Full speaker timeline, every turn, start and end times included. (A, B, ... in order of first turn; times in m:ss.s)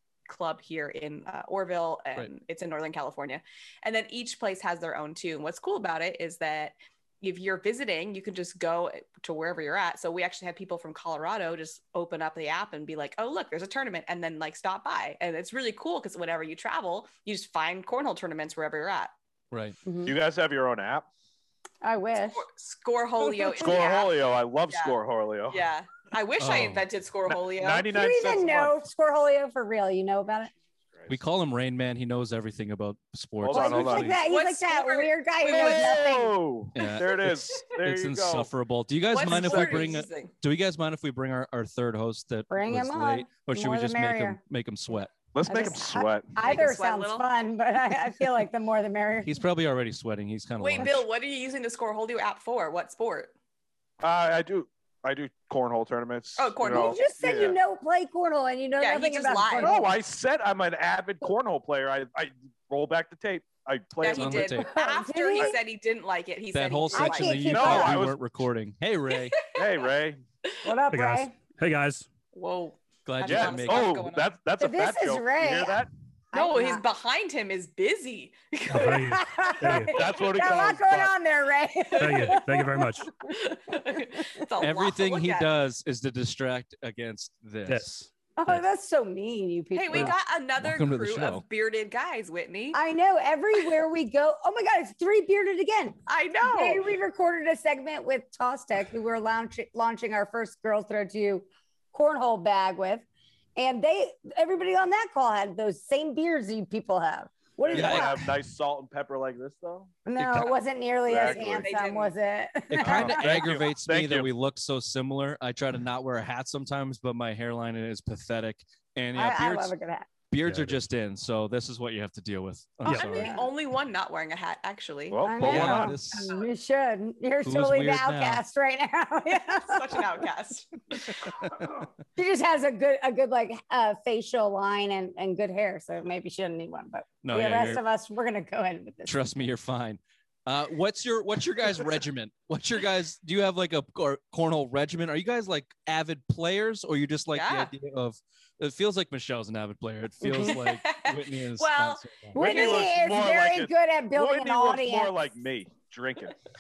0:00.3-0:19.1 A
0:19.5-0:19.8 B
0:19.8-0:20.1 C
0:20.0-0:21.1 D
0:21.8-0:22.4 C
0:22.2-0:25.0 A
0:23.2-0:23.8 C
0:23.5-0:25.6 D
0:25.5-0:27.9 A
0:26.4-0:26.8 B
0:27.3-0:28.8 D
0:27.9-0:30.5 C
0:31.1-0:34.2 B
0:33.4-0:34.1 D
0:33.5-0:36.4 C
0:34.2-0:36.1 A
0:35.5-0:38.5 D
0:36.7-0:45.1 B
0:39.1-0:40.3 A
0:39.4-0:39.8 D
0:42.5-0:44.4 C
0:45.3-0:46.3 D
0:45.5-0:49.4 C
0:46.4-0:47.2 A
0:49.2-0:51.0 B
0:50.6-0:53.3 A
0:54.0-0:57.6 D
0:56.4-0:57.0 A
0:56.6-1:00.0 C
0:58.8-0:59.7 A
0:59.6-1:04.6 D
1:04.0-1:07.8 A
1:04.1-1:04.7 B
1:04.6-1:05.6 C
1:06.5-1:09.4 B
1:06.9-1:08.0 C
1:07.5-1:08.2 D
1:09.5-1:10.2 D
1:10.6-1:11.3 C
1:10.9-1:12.1 E
1:12.3-1:14.3 A
1:13.0-1:14.0 B
1:13.2-1:15.9 D
1:14.6-1:16.8 C
1:16.3-1:19.2 A
1:18.7-1:19.9 E
1:18.7-1:23.0 C
1:19.7-1:21.1 D
1:22.0-1:23.1 E
1:23.2-1:25.5 A
1:24.6-1:28.6 B
1:28.4-1:30.1 C
1:29.7-1:32.8 A
1:29.9-1:31.4 B
1:32.7-1:48.2 C
1:36.0-1:36.9 A
1:47.6-1:50.4 D
1:47.7-1:48.2 B
1:50.0-1:53.5 C
1:51.0-1:51.7 D
1:51.2-1:52.1 A
1:52.7-1:59.7 B
1:52.8-1:54.3 D
1:59.1-2:00.1 C
2:00.3-2:03.3 B
2:02.8-2:06.5 A
2:02.9-2:03.5 C
2:05.1-2:05.9 D
2:05.2-2:10.1 C
2:05.4-2:06.3 B
2:07.4-2:08.4 B
2:09.6-2:11.3 A
2:12.2-2:19.1 C
2:17.2-2:17.8 B
2:19.1-2:32.4 B
2:27.3-2:27.7 A
2:30.2-2:30.6 C
2:30.4-2:32.9 A
2:32.3-2:35.3 C
2:32.4-2:36.3 D